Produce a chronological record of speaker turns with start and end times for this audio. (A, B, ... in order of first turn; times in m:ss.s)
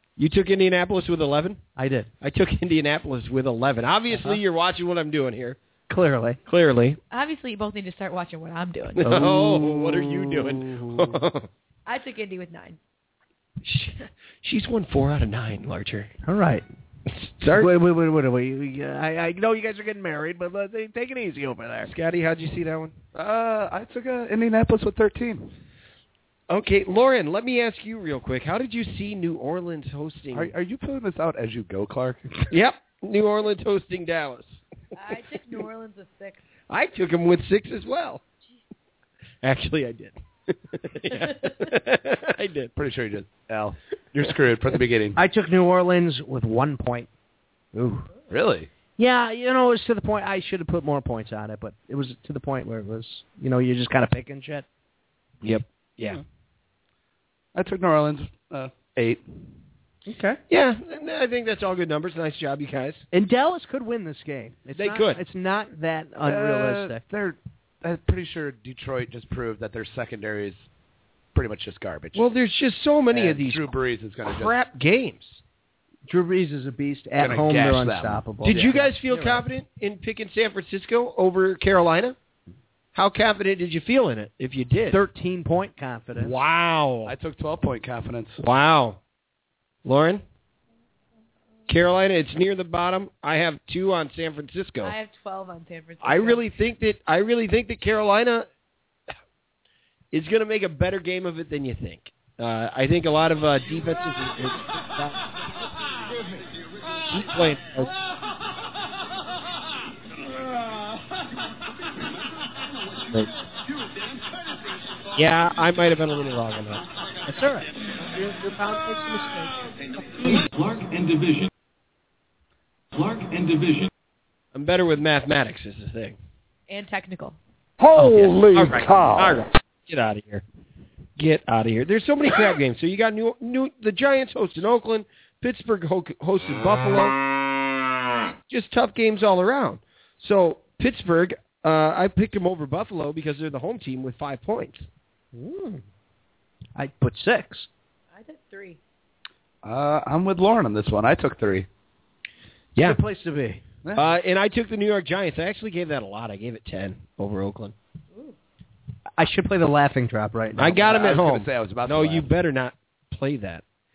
0:00.2-0:01.6 A
0:01.8-0:02.1 B
0:02.2-0:05.6 A
0:04.1-0:04.4 B
0:05.9-0:06.4 B
0:06.4-0:07.0 A
0:07.1-0:09.2 C
0:09.0-0:11.5 A
0:09.1-0:09.8 B
0:11.9-0:12.8 C
0:13.6-0:16.1 A
0:16.2-0:16.6 B
0:17.1-0:17.7 A
0:17.5-0:21.9 B
0:21.8-0:22.9 A
0:23.1-0:25.5 D
0:26.5-0:30.5 A
0:30.3-0:32.4 D
0:32.5-0:34.6 A
0:34.9-0:36.4 C
0:36.7-0:38.2 A
0:39.4-0:42.7 A
0:41.2-0:41.5 C
0:42.8-0:45.2 D
0:45.2-0:47.1 B
0:47.7-0:48.1 A
0:48.3-0:48.7 D
0:49.0-0:54.6 B
0:55.4-0:56.2 A
0:57.6-0:59.3 D
1:00.1-1:00.4 B
1:00.5-1:03.0 A
1:03.1-1:07.0 B
1:04.7-1:05.2 A
1:06.2-1:10.6 D
1:11.3-1:12.2 D
1:12.1-1:15.4 A
1:13.1-1:14.6 D
1:16.1-1:19.4 B
1:17.2-1:18.7 D
1:18.4-1:22.2 A
1:22.9-1:25.0 A
1:24.9-1:26.3 B
1:26.2-1:27.1 A
1:27.0-1:28.4 D
1:28.4-1:29.0 A
1:29.8-1:30.2 A
1:31.7-1:34.9 A
1:34.8-1:36.4 C
1:36.0-1:38.5 A
1:40.1-1:45.2 A
1:47.1-1:47.9 A
1:55.1-1:56.8 A
1:57.3-1:59.5 B
2:00.5-2:01.5 E
2:02.9-2:03.9 E
2:04.5-2:06.2 A
2:06.7-2:07.4 C
2:07.9-2:10.4 A
2:11.2-2:17.2 A
2:18.5-2:24.9 A
2:25.3-2:25.8 B
2:26.8-2:27.7 B
2:28.1-2:28.8 C
2:29.6-2:31.7 D
2:32.8-2:33.6 B
2:33.8-2:34.1 D
2:33.9-2:37.7 A
2:39.2-2:40.8 B
2:40.6-2:43.6 A
2:40.6-2:42.3 D